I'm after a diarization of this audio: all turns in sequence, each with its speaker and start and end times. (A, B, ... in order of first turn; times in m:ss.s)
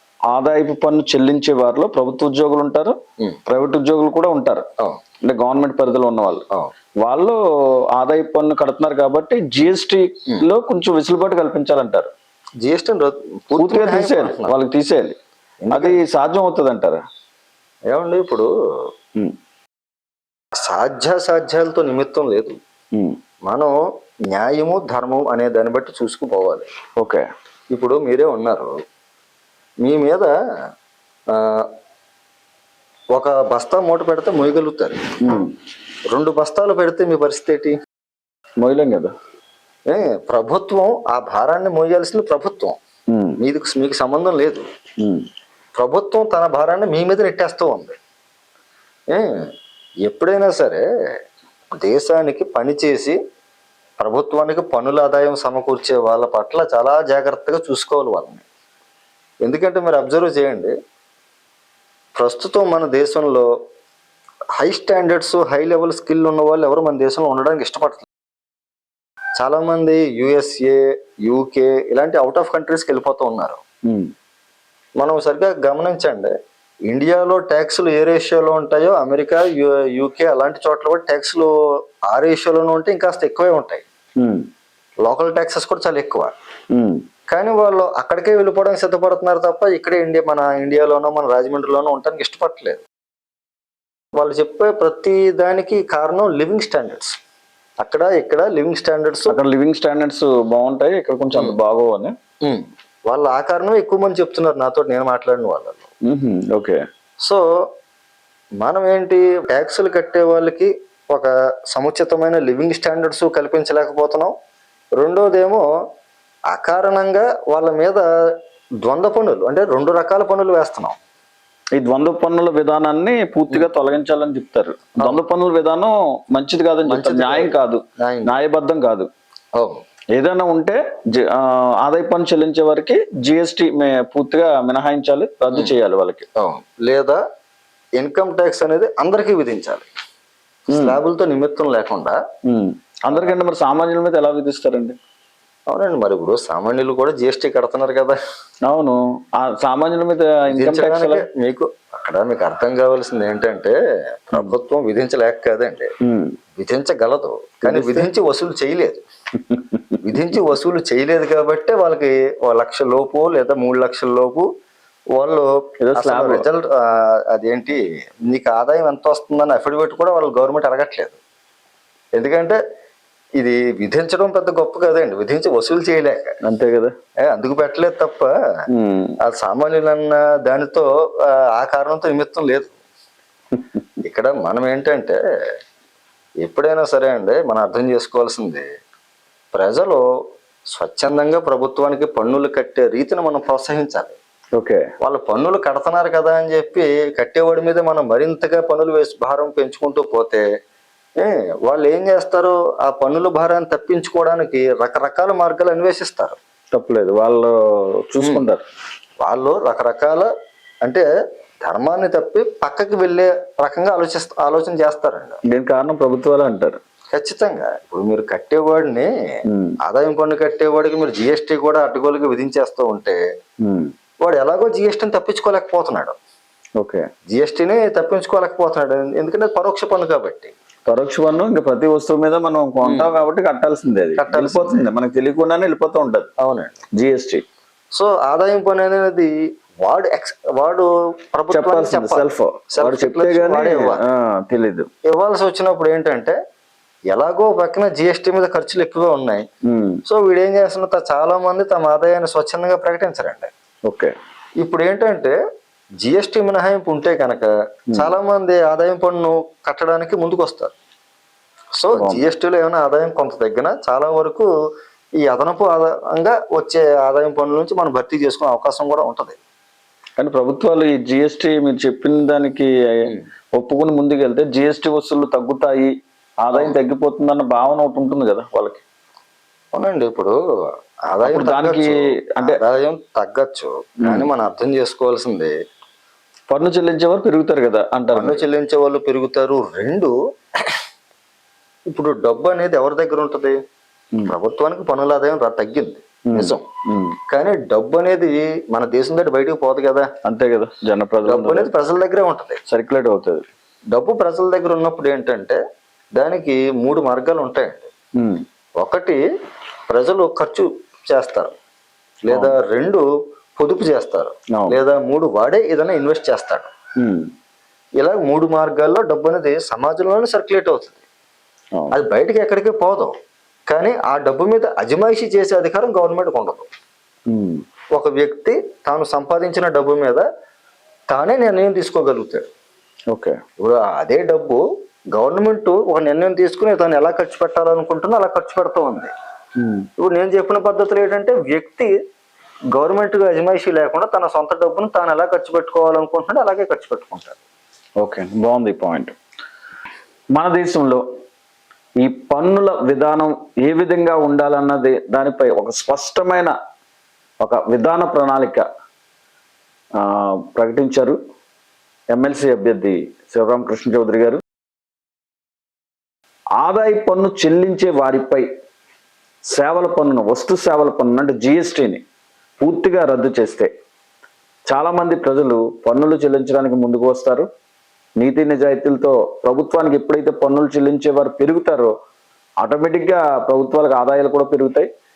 0:00.3-0:02.9 A
0:03.5-0:04.6 A
0:05.2-0:06.4 A
0:07.0-0:07.4 A
0:07.9-0:12.1 A
0:12.6-0:14.5 B
0:13.6-0:15.2 A
0:15.6-0:16.0 B
0:15.7-0:17.0 A
0:17.9-0:18.5 B
0:20.6-0:22.6 B
0:23.5-0:23.7 B
0:24.3-0:26.7 B
0:27.0-0:27.2 A
0:27.7-0:28.8 B
0:29.8-0:30.3 B
0:31.3-0:31.7 B
0:33.1-0:35.4 B
0:35.2-0:35.5 A
0:36.1-0:37.7 B
0:38.6-0:39.1 A
0:39.9-0:42.8 B
0:43.1-0:43.4 A
0:43.4-0:44.6 B
0:45.8-0:48.0 B
0:49.1-0:49.4 B
0:50.0-0:50.8 B
0:51.8-0:53.2 B
0:54.0-0:58.4 B
0:59.4-1:00.7 B
1:02.2-1:03.5 B
1:04.6-1:08.0 B
1:09.4-1:13.6 B
1:15.0-1:16.3 B
1:16.9-1:21.5 B
1:22.1-1:23.8 B
1:24.2-1:24.4 A
1:25.0-1:26.3 B
1:26.7-1:27.0 A
1:27.3-1:32.8 B
1:34.2-1:37.2 B
1:37.8-1:39.4 B
1:39.3-1:42.1 A
1:42.4-1:45.8 B
1:46.0-1:46.8 A
1:48.6-1:54.3 B
1:55.0-1:55.6 B
1:56.5-1:58.0 B
1:58.8-2:01.0 B
2:01.8-2:09.1 A
2:06.8-2:08.3 B
2:09.5-2:09.8 B
2:10.1-2:16.2 A
2:16.4-2:17.2 B
2:18.0-2:19.9 B
2:20.7-2:22.2 B
2:20.7-2:21.0 A
2:22.4-2:25.0 A
2:25.7-2:28.2 B
2:28.7-2:31.2 A
2:30.5-2:33.7 B
2:34.3-2:35.9 B
2:36.0-2:36.4 A
2:36.6-2:39.0 B
2:37.6-2:38.1 A
2:39.5-2:40.0 A
2:40.0-2:44.4 B
2:45.1-2:51.2 B
2:45.8-2:46.4 A
2:52.1-2:52.6 B
2:53.4-2:56.4 B
2:56.4-2:56.9 A
2:57.2-2:58.3 B
2:58.7-2:59.2 A
2:59.2-3:00.8 B
3:01.5-3:02.7 B
3:04.0-3:05.2 B
3:06.4-3:08.7 B
3:09.5-3:10.0 B
3:10.7-3:14.2 B
3:14.6-3:14.9 A
3:15.0-3:20.4 B
3:21.2-3:26.4 B
3:26.7-3:28.6 A
3:28.2-3:28.4 B
3:29.2-3:30.3 B
3:31.6-3:35.4 B
3:35.5-3:36.8 A
3:37.1-3:39.1 B
3:39.5-3:39.8 A
3:39.8-3:43.2 B
3:43.6-3:43.9 A
3:44.2-3:46.1 B
3:46.8-3:47.1 A
3:47.3-3:50.5 B
3:50.9-3:56.3 A
3:52.8-3:53.1 B
3:54.2-3:54.9 B
3:56.4-3:56.8 B
3:56.9-3:57.4 A
3:57.9-4:04.0 B
4:01.5-4:04.9 A
4:05.0-4:06.4 B
4:07.1-4:09.4 B
4:09.6-4:10.0 A
4:10.0-4:13.5 B
4:13.9-4:14.1 A
4:14.6-4:15.3 B
4:16.0-4:20.7 B
4:21.8-4:24.5 B
4:21.9-4:22.2 A
4:25.2-4:29.4 B
4:30.2-4:35.9 A
4:36.4-4:38.8 A
4:39.7-4:40.3 B
4:41.1-4:45.5 B
4:41.2-4:42.6 A
4:46.5-4:48.4 A
4:48.1-4:50.7 B
4:51.9-4:53.6 B
4:54.3-4:56.6 B
4:56.3-4:57.2 A
4:57.3-5:00.1 B
5:00.2-5:01.7 A
5:01.3-5:02.6 B
5:02.7-5:03.4 A
5:03.9-5:05.6 B
5:06.1-5:07.9 B
5:08.2-5:08.4 A
5:08.8-5:09.2 B
5:09.9-5:11.5 B
5:12.3-5:16.7 B
5:12.3-5:12.6 A
5:17.0-5:17.3 A
5:18.0-5:21.0 B
5:21.9-5:23.1 B
5:23.7-5:26.7 B
5:27.3-5:27.6 A
5:27.9-5:30.2 B
5:31.1-5:32.5 B
5:33.1-5:33.4 A
5:33.6-5:34.6 B
5:35.1-5:39.1 B
5:39.6-5:39.9 A
5:40.0-5:41.9 B
5:42.7-5:47.4 B
5:48.0-5:49.1 A
5:50.3-5:51.0 A
5:52.0-5:56.5 A
5:57.4-5:58.6 A
6:00.0-6:01.2 A
6:02.1-6:04.4 A
6:06.6-6:08.4 A
6:09.5-6:12.0 A
6:12.6-6:13.7 A
6:14.7-6:17.5 A
6:18.2-6:21.9 A
6:22.6-6:24.9 A